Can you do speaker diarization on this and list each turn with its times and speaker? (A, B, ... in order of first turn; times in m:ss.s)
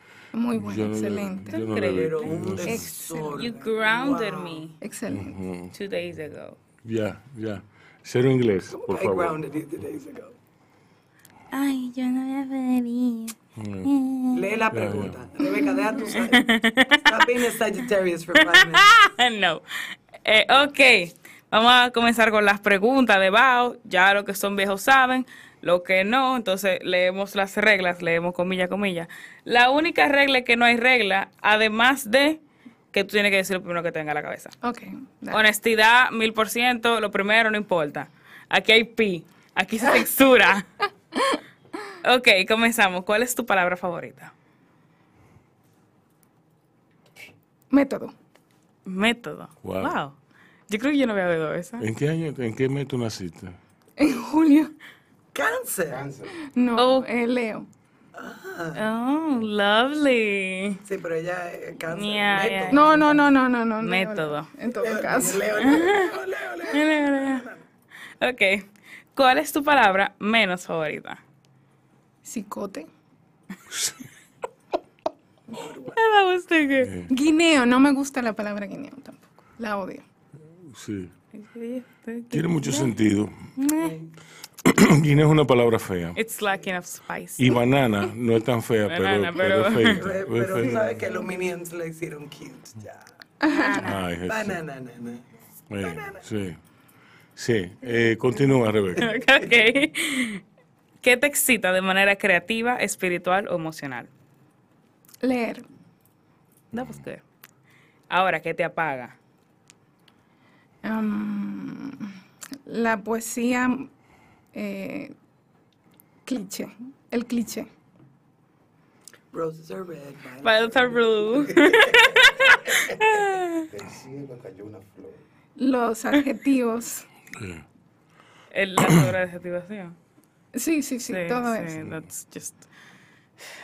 0:00.3-0:01.7 A
0:00.5-0:02.9 B
0:01.5-0:02.4 C
0:01.8-0:04.6 D
0:02.6-0:03.5 A
0:03.4-0:04.8 C
0:04.8-0:05.4 A
0:05.1-0:05.7 B
0:05.7-0:06.6 C
0:06.8-0:09.4 B
0:08.7-0:10.4 D
0:11.5-0:14.7 C
0:13.6-0:13.9 B
0:14.3-0:19.0 D
0:14.7-0:15.3 B
0:15.4-0:17.4 C
0:18.4-0:19.6 C
0:20.2-0:32.4 C
0:32.9-0:34.6 C
0:34.6-0:35.4 A
0:35.3-0:40.7 C
0:42.0-0:44.3 C
0:47.7-0:48.1 A
0:48.9-0:50.2 C
0:49.6-0:50.0 B
0:50.7-0:51.9 C
0:51.8-0:53.6 B
0:54.0-0:54.7 A
0:55.3-0:56.1 D
0:55.9-0:56.4 E
0:56.4-0:57.7 A
0:56.8-0:57.1 C
0:58.2-0:58.8 D
0:58.8-1:00.8 C
1:00.8-1:03.2 D
1:01.9-1:02.9 C
1:02.7-1:05.6 A
1:03.8-1:04.5 C
1:04.7-1:07.6 D
1:05.6-1:07.5 C
1:08.2-1:11.2 C
1:12.2-1:12.9 A
1:15.6-1:15.9 D
1:15.9-1:16.9 C
1:16.8-1:17.1 B
1:17.1-1:20.1 A
1:20.7-1:21.1 B
1:21.4-1:22.9 C
1:22.3-1:23.3 B
1:23.6-1:23.9 C
1:23.6-1:24.1 D
1:24.6-1:26.2 B
1:26.2-1:27.6 C
1:27.4-1:30.9 B
1:28.9-1:30.0 C
1:29.9-1:33.0 D
1:33.4-1:33.9 A
1:33.5-1:34.0 C
1:33.8-1:34.6 B
1:34.3-1:35.2 D
1:35.7-1:36.6 B
1:35.8-1:36.2 D
1:37.4-1:39.1 B
1:39.0-1:40.4 C
1:41.0-1:44.1 C
1:45.2-1:45.7 A
1:46.7-1:47.2 C
1:48.1-1:49.2 C
1:50.8-1:52.1 A
1:52.7-1:53.9 A
1:54.5-1:55.1 A
1:56.3-1:57.7 A
1:59.3-2:02.1 D
2:00.4-2:03.7 C
2:03.7-2:05.2 E
2:05.6-2:07.1 A
2:07.3-2:07.6 B
2:08.5-2:10.0 C
2:10.5-2:11.7 A
2:11.1-2:12.7 C